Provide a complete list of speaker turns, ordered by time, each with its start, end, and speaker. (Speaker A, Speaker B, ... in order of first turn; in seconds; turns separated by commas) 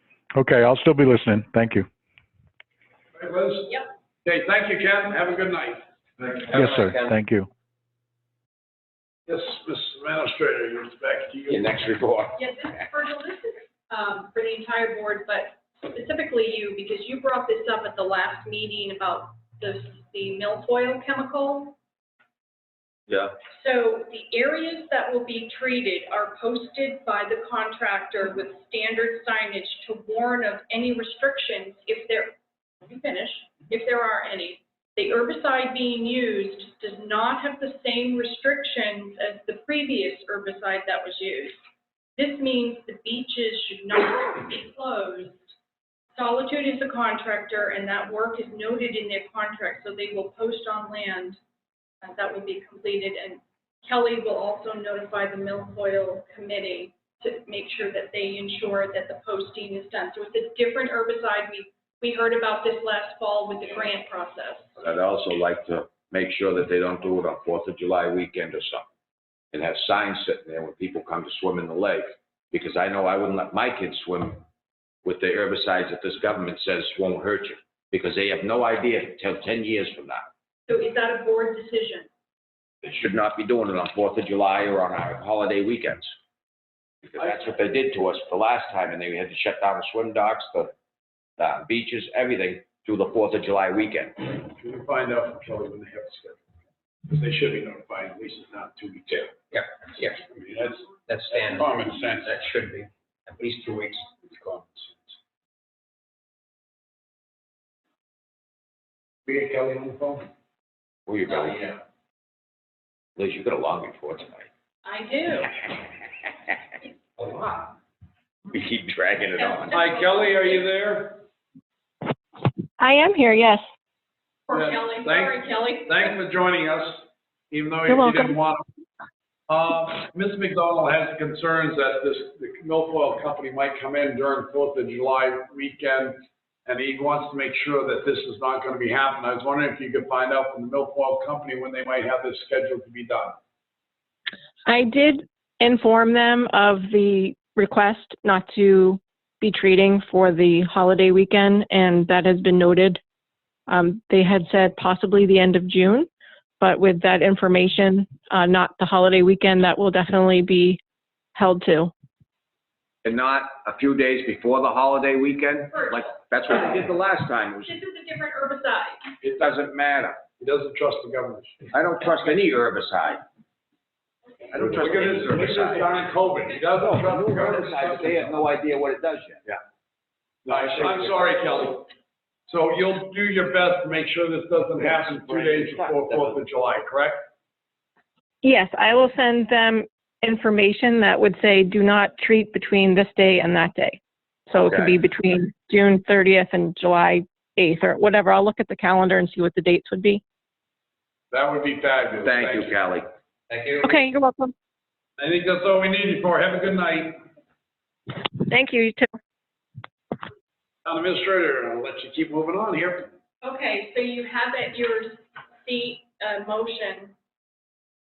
Speaker A: 0.3-1.9, Speaker B: 3.2-3.7, Speaker B: 4.2-5.8, Speaker C: 6.2-7.2, Speaker A: 6.5-7.5, Speaker B: 9.3-11.8, Speaker D: 11.5-12.4, Speaker E: 12.3-21.8, Speaker D: 23.1-23.4, Speaker E: 23.5-41.6, Speaker E: 42.2-45.5, Speaker E: 46.2-51.4, Speaker E: 52.0-64.8, Speaker D: 64.8-68.9, Speaker D: 69.5-74.4, Speaker D: 75.0-80.3, Speaker E: 80.7-82.1, Speaker D: 82.8-86.1, Speaker D: 87.0-90.7, Speaker D: 91.4-94.3, Speaker B: 94.5-96.4, Speaker B: 97.1-99.5, Speaker C: 99.5-100.2, Speaker B: 100.2-102.4, Speaker C: 101.1-104.6, Speaker B: 109.3-110.2, Speaker D: 111.1-111.6, Speaker C: 111.5-111.8, Speaker D: 113.2-114.5, Speaker E: 114.8-115.6, Speaker C: 117.2-117.7, Speaker D: 118.5-119.8, Speaker E: 119.4-120.7, Speaker B: 119.7-121.2, Speaker F: 122.8-123.6, Speaker E: 124.5-126.1, Speaker B: 124.5-128.6, Speaker F: 127.9-128.3, Speaker B: 129.5-143.4, Speaker F: 144.7-153.0, Speaker F: 153.7-156.1, Speaker F: 156.6-160.8, Speaker F: 161.3-161.9, Speaker D: 163.0-167.7, Speaker E: 165.7-166.8, Speaker E: 167.6-169.1, Speaker D: 169.2-170.2, Speaker B: 170.4-171.7, Speaker D: 171.7-173.2, Speaker E: 174.3-174.8, Speaker D: 174.5-176.1, Speaker B: 174.5-178.4, Speaker E: 176.3-176.7, Speaker D: 176.8-179.4, Speaker B: 180.4-181.9, Speaker D: 180.5-181.0, Speaker B: 182.5-187.2, Speaker D: 184.8-186.3, Speaker F: 188.4-200.2, Speaker D: 194.6-195.0, Speaker B: 201.3-202.8, Speaker D: 202.2-203.1, Speaker C: 203.5-203.9, Speaker F: 203.8-204.5, Speaker B: 205.2-207.2, Speaker F: 208.3-209.1, Speaker B: 210.8-213.1, Speaker E: 213.4-217.1